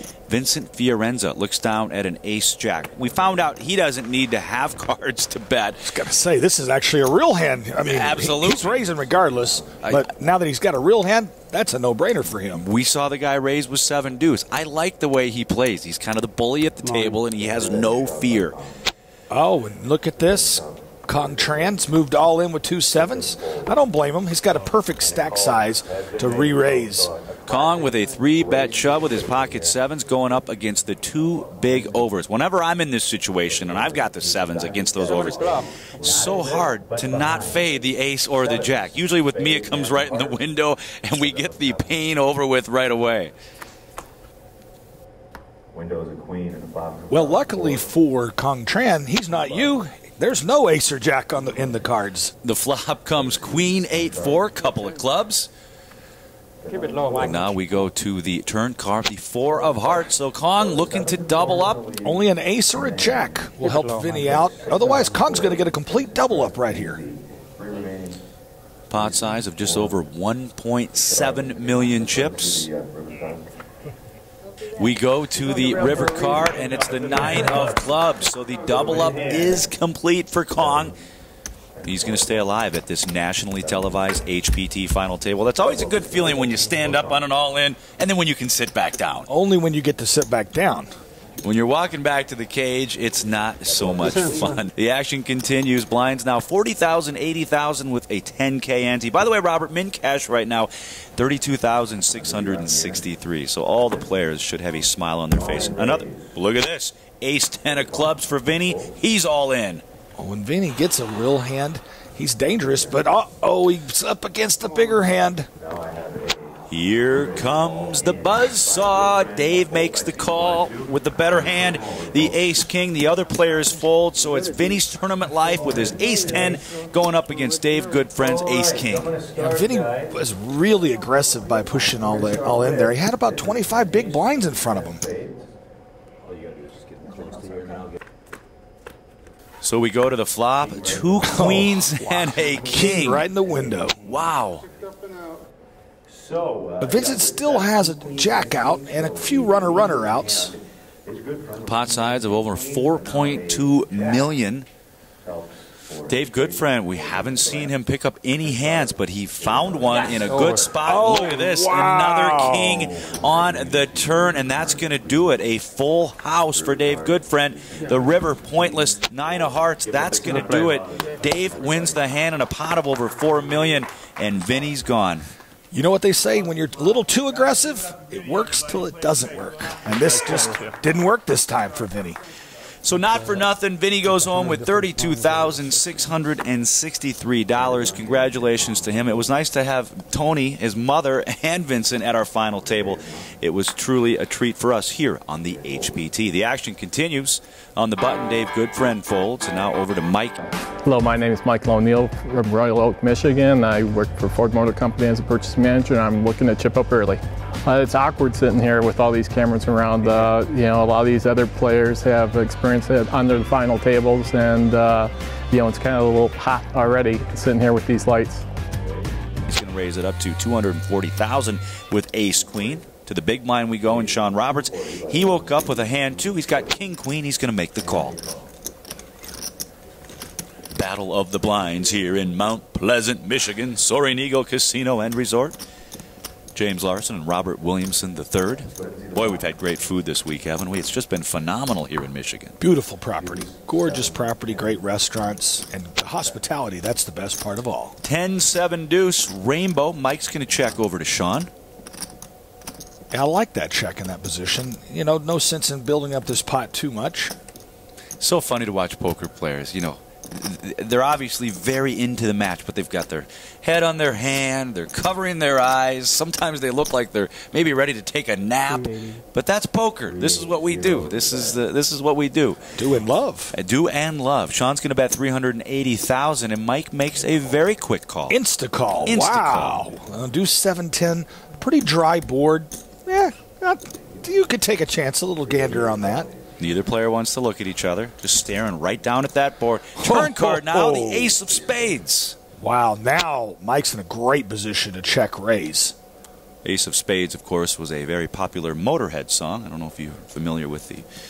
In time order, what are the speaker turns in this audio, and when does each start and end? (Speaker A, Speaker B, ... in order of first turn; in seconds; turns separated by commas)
Speaker A: 0.3-5.9, Speaker B: 5.8-12.7, Speaker A: 7.8-8.9, Speaker A: 9.8-10.1, Speaker A: 12.6-18.6, Speaker B: 19.3-27.1, Speaker A: 27.5-43.3, Speaker C: 35.1-35.6, Speaker B: 47.1-52.4, Speaker A: 52.4-55.5, Speaker C: 56.7-57.5, Speaker A: 57.2-61.9, Speaker B: 62.0-67.0, Speaker C: 63.6-64.1, Speaker A: 68.9-72.7, Speaker A: 74.8-81.0, Speaker A: 81.8-89.3, Speaker B: 89.3-90.9, Speaker A: 91.4-109.8, Speaker B: 110.2-115.5, Speaker A: 116.7-129.1, Speaker B: 129.3-135.1, Speaker A: 139.6-143.2, Speaker B: 141.2-144.0, Speaker A: 144.0-144.6, Speaker B: 146.8-150.6, Speaker A: 151.6-154.7, Speaker A: 156.1-175.2, Speaker B: 160.7-163.0, Speaker B: 175.7-182.2, Speaker A: 182.8-200.4, Speaker D: 200.8-218.4, Speaker A: 219.5-228.2, Speaker A: 230.7-235.6, Speaker A: 236.6-242.6, Speaker B: 242.6-248.0, Speaker A: 248.0-251.5, Speaker B: 253.1-257.4, Speaker A: 258.2-272.6, Speaker C: 268.7-269.2, Speaker B: 272.8-273.5, Speaker A: 273.5-278.4, Speaker B: 278.3-286.3, Speaker A: 279.0-279.8, Speaker A: 286.6-292.4, Speaker B: 290.0-291.4, Speaker B: 292.6-295.9, Speaker A: 296.6-301.1